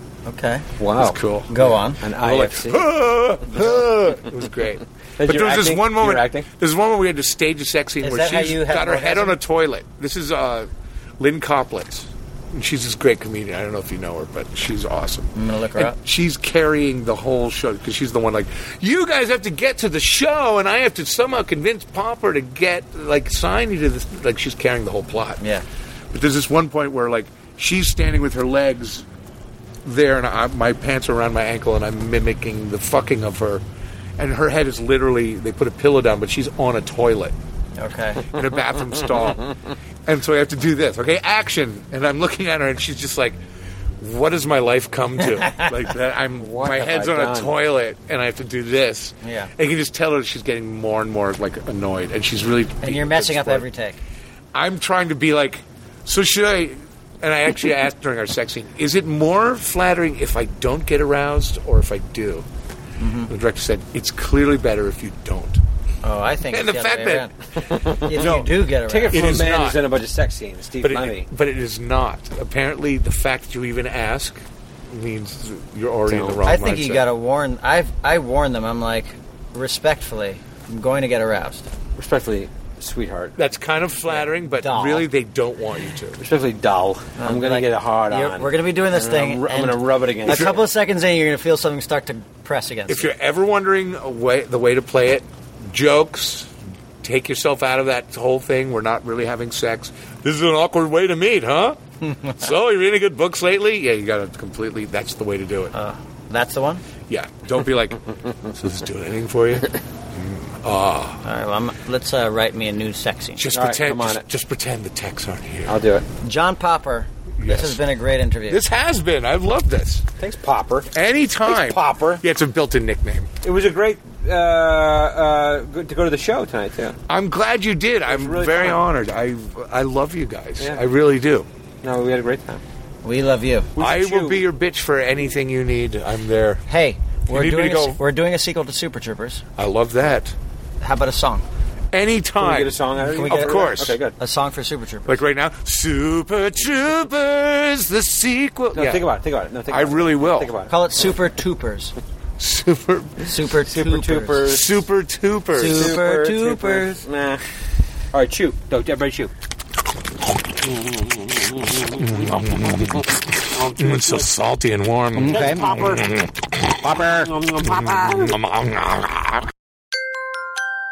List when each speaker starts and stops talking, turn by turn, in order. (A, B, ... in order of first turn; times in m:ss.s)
0:00.3-0:00.7 A
0:00.8-0:01.2 B
0:01.0-0:01.6 C
0:01.5-0:02.0 A
0:02.0-0:02.9 B
0:02.2-0:25.4 C
0:03.5-0:04.2 A
0:05.2-0:06.5 B
0:08.0-0:09.4 A
0:15.4-0:16.0 A
0:25.4-0:25.6 A
0:26.1-0:29.1 C
0:29.8-0:33.6 C
0:34.2-0:37.4 C
0:37.8-0:38.3 A
0:38.3-0:39.6 C
0:40.1-0:43.4 C
0:44.0-0:53.7 C
0:46.4-0:47.6 B
0:49.2-0:49.5 A
0:52.8-0:54.0 A
0:54.5-1:02.5 C
1:03.0-1:03.3 A
1:03.3-1:05.6 C
1:06.0-1:07.3 A
1:06.5-1:07.3 C
1:07.6-1:11.3 B
1:08.0-1:09.5 A
1:09.1-1:09.8 C
1:10.8-1:17.1 C
1:16.1-1:16.4 B
1:16.4-1:21.6 A
1:22.0-1:23.4 B
1:23.4-1:26.2 C
1:24.1-1:25.1 A
1:26.2-1:30.6 B
1:27.2-1:33.1 A
1:30.3-1:30.6 C
1:32.9-1:41.8 C
1:42.1-1:42.4 A
1:42.3-1:45.7 C
1:45.7-1:46.8 A
1:47.1-1:51.2 C
1:51.2-1:53.4 A
1:53.4-1:55.8 C
1:53.5-1:54.2 B
1:55.7-1:56.1 B
1:56.2-1:58.6 A
1:57.4-1:57.8 C
1:58.5-2:00.1 C
2:00.2-2:00.9 B
2:00.9-2:03.3 C
2:01.5-2:02.2 B
2:03.4-2:07.0 B
2:07.1-2:11.5 C
2:08.1-2:08.8 B
2:11.8-2:12.6 B
2:13.0-2:13.7 A
2:13.8-2:14.4 B
2:13.8-2:16.6 C
2:16.7-2:19.4 A
2:17.3-2:18.0 C
2:19.6-2:20.4 C
2:20.8-2:21.4 A
2:21.9-2:24.0 C
2:22.4-2:24.2 B
2:23.0-2:25.2 A
2:25.0-2:29.1 C
2:28.7-2:30.7 B
2:29.7-2:30.6 C
2:30.7-2:31.9 A
2:32.4-2:33.3 C
2:33.2-2:34.5 A
2:33.7-2:34.8 B
2:34.5-2:36.0 C
2:35.6-2:37.0 A
2:35.6-2:37.4 B
2:38.1-2:39.3 B
2:41.7-2:46.8 C
2:43.5-2:44.2 B
2:45.2-2:45.8 A
2:45.2-2:46.1 B
2:46.8-2:47.3 A
2:46.8-2:48.4 B
2:47.6-2:49.5 C